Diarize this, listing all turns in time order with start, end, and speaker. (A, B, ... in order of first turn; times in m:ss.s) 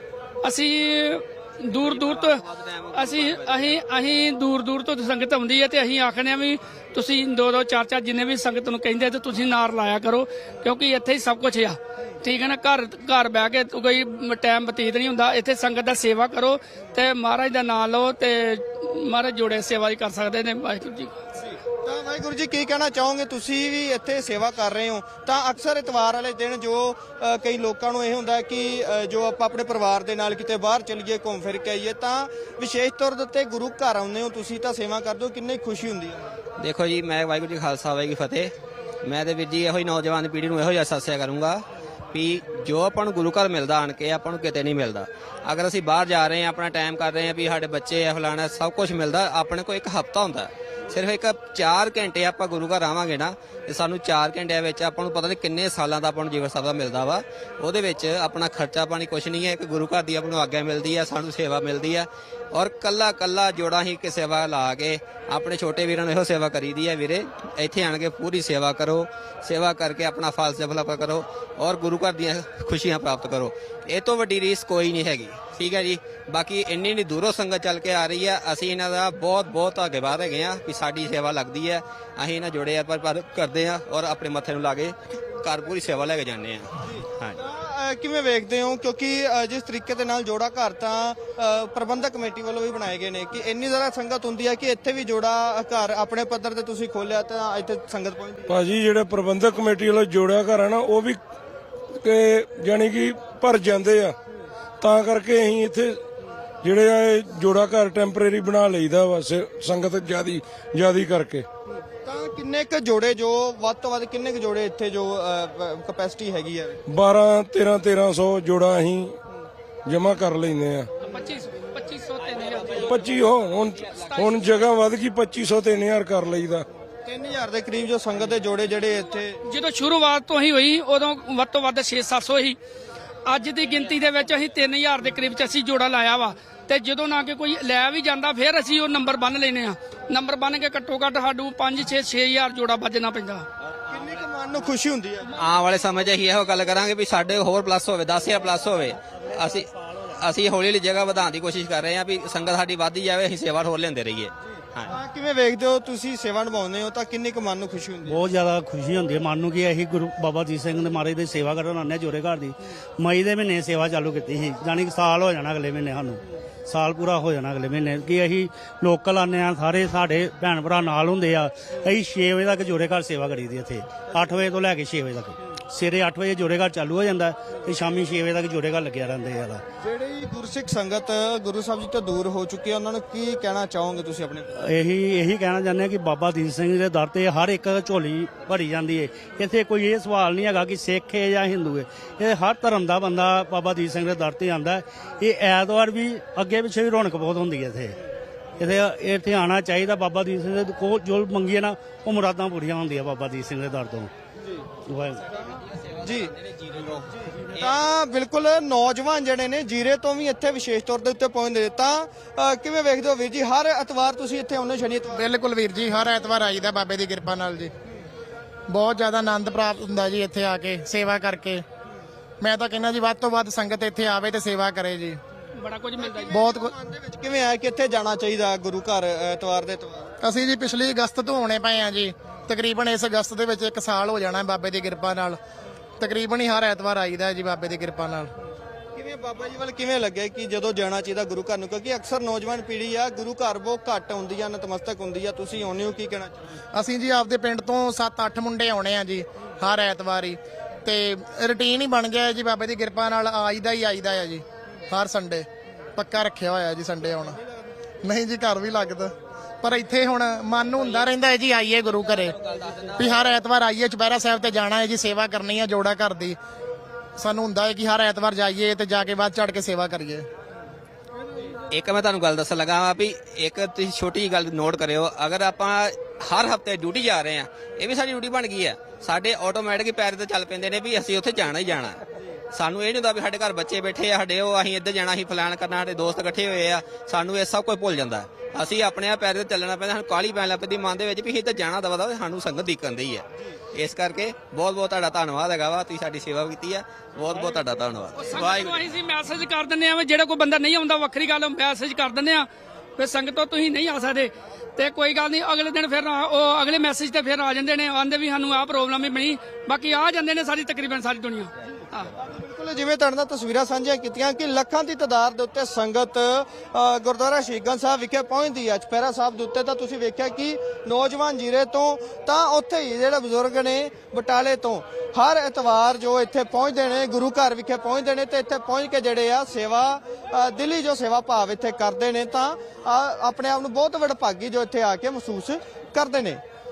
0:00.4-0:02.4 A
0:01.8-0:03.8 B
0:02.9-0:21.2 A
0:21.4-0:36.4 C
0:36.6-0:38.5 B
0:39.0-1:27.4 B
1:26.9-1:38.5 C
1:38.5-1:41.2 D
1:42.0-1:44.1 D
1:44.8-1:46.0 D
1:46.6-1:51.4 D
1:52.0-1:56.8 C
1:56.9-1:59.2 D
1:59.8-2:00.9 D
2:01.0-2:03.0 A
2:02.8-2:06.6 D
2:04.1-2:04.4 A
2:07.0-2:09.4 C
2:09.4-2:12.6 A
2:13.3-2:23.4 A
2:23.9-2:25.3 C
2:25.3-2:34.9 B
2:34.8-2:38.2 C
2:38.0-2:59.6 E
2:59.8-3:04.5 C
3:04.6-3:18.0 E
3:18.6-3:24.1 E
3:24.8-3:25.2 E
3:26.0-3:26.3 C
3:27.4-3:35.2 C
3:35.1-3:37.7 F
3:38.7-3:41.6 F
3:42.4-3:45.2 F
3:45.6-3:46.3 A
3:46.0-3:50.1 C
3:46.3-3:46.7 F
3:50.2-3:55.4 F
3:56.0-3:58.3 F
3:59.0-4:06.5 C
4:06.7-4:17.4 F
4:18.0-4:22.4 F
4:22.9-4:26.4 F
4:27.2-4:30.2 F
4:31.7-4:42.0 B
4:42.5-4:58.9 B
4:58.2-5:12.1 A
5:12.2-5:36.4 C